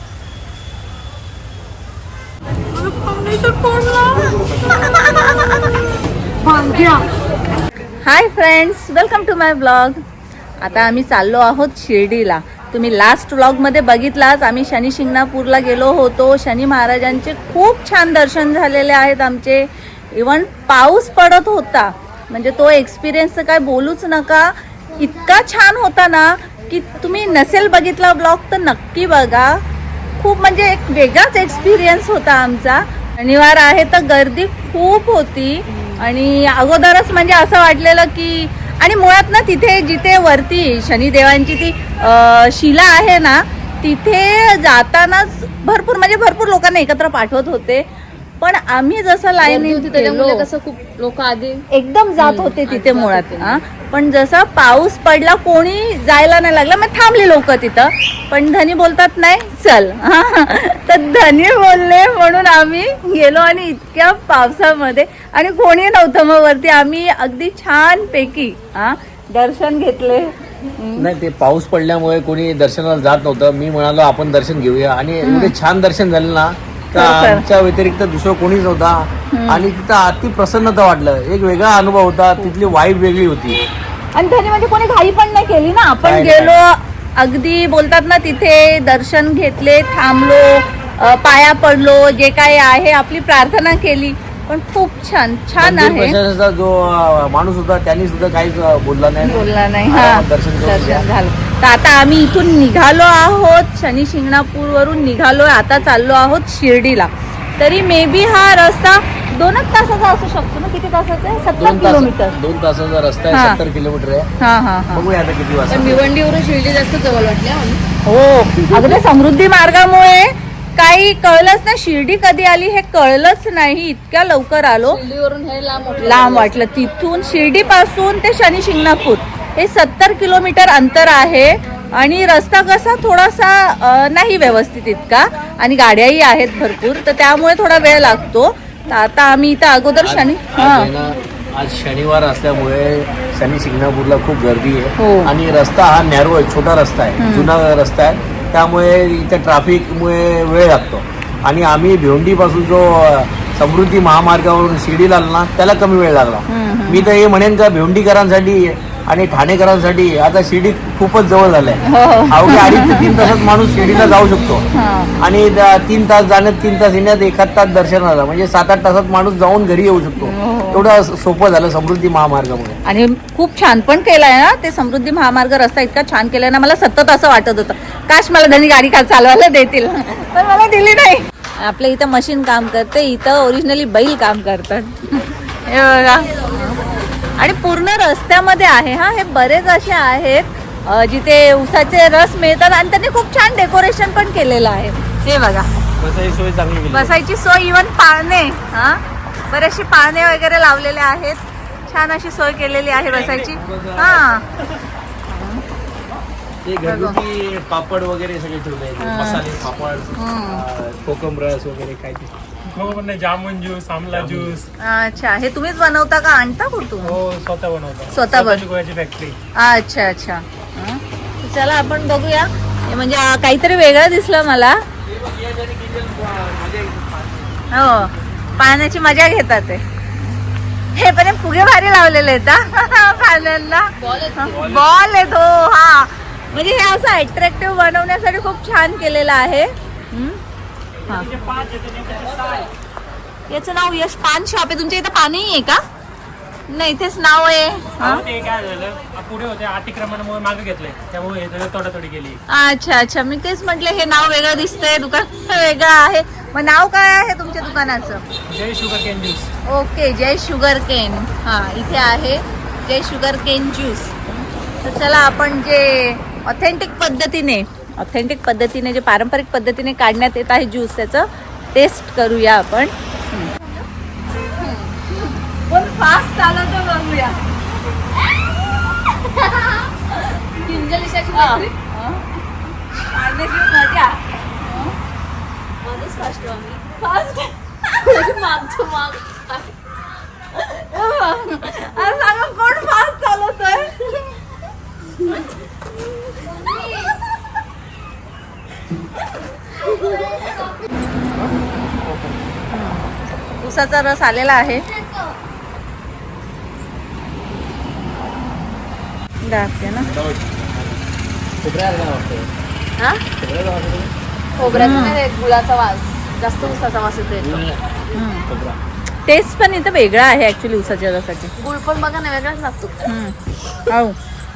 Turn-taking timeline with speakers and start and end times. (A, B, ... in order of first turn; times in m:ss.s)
0:02.8-0:04.4 A
0:04.2-0:05.6 B
0:06.4-0:07.0 A
0:08.0-0:10.0 B
0:10.6-0:29.6 B
0:30.2-0:47.9 B
0:48.4-0:50.5 B
0:49.4-0:51.6 A
0:51.7-1:11.1 B
0:52.2-0:53.6 A
1:11.0-1:23.6 C
1:15.2-1:15.5 B
1:16.9-1:17.4 B
1:19.3-1:19.7 B
1:24.2-1:36.2 B
1:26.0-1:26.6 C
1:35.6-1:41.1 C
1:39.2-1:52.4 B
1:51.6-1:54.3 C
1:53.3-1:53.6 B
1:54.4-1:55.1 B
1:54.9-1:56.1 C
1:55.7-1:57.8 A
1:58.1-2:05.0 B
2:04.9-2:06.5 A
2:06.0-2:20.9 B
2:20.0-2:44.7 C
2:25.0-2:25.3 B
2:27.2-2:27.5 B
2:36.5-2:37.1 B
2:41.9-2:44.2 B
2:44.7-2:45.1 B
2:45.2-2:52.8 C
2:50.2-2:50.9 B
2:52.8-3:15.7 B
3:16.0-3:17.1 C
3:16.9-3:24.4 B
3:23.6-3:24.2 C
3:25.3-3:25.6 B
3:26.6-3:32.3 C
3:26.8-3:27.2 B
3:29.0-3:29.4 B
3:30.2-3:30.6 B
3:32.7-3:34.7 D
3:34.1-3:34.6 C
3:34.8-3:37.2 B
3:37.0-3:39.4 D
3:38.1-3:38.6 B
3:39.6-3:44.8 B
3:45.3-3:47.1 C
3:47.7-3:49.8 B
3:50.9-4:00.4 B
3:54.0-3:54.5 A
4:01.3-4:02.7 D
4:03.5-4:05.8 B
4:06.7-4:08.3 B
4:08.0-4:12.4 D
4:12.5-4:18.2 B
4:18.5-4:19.5 D
4:19.7-4:33.5 B
4:34.6-4:37.4 B
4:39.0-4:40.4 B
4:40.6-4:41.7 A
4:41.3-4:42.3 B
4:42.9-4:45.0 B
4:45.8-4:47.0 A
4:47.0-4:48.2 B
4:48.0-4:49.8 A
4:50.5-4:54.3 B
5:02.7-5:03.0 B
5:03.6-5:04.8 B
5:09.4-5:10.1 B
5:10.2-5:10.8 C
5:11.6-5:12.5 C
5:13.0-5:13.2 A
5:13.4-5:14.1 C
5:14.6-5:17.6 A
5:14.7-5:15.2 B
5:17.4-5:17.8 C
5:18.1-5:18.5 B
5:18.5-5:18.8 C
5:19.3-5:21.5 B
5:21.6-5:23.0 A
5:23.1-5:23.4 B
5:23.9-5:24.2 B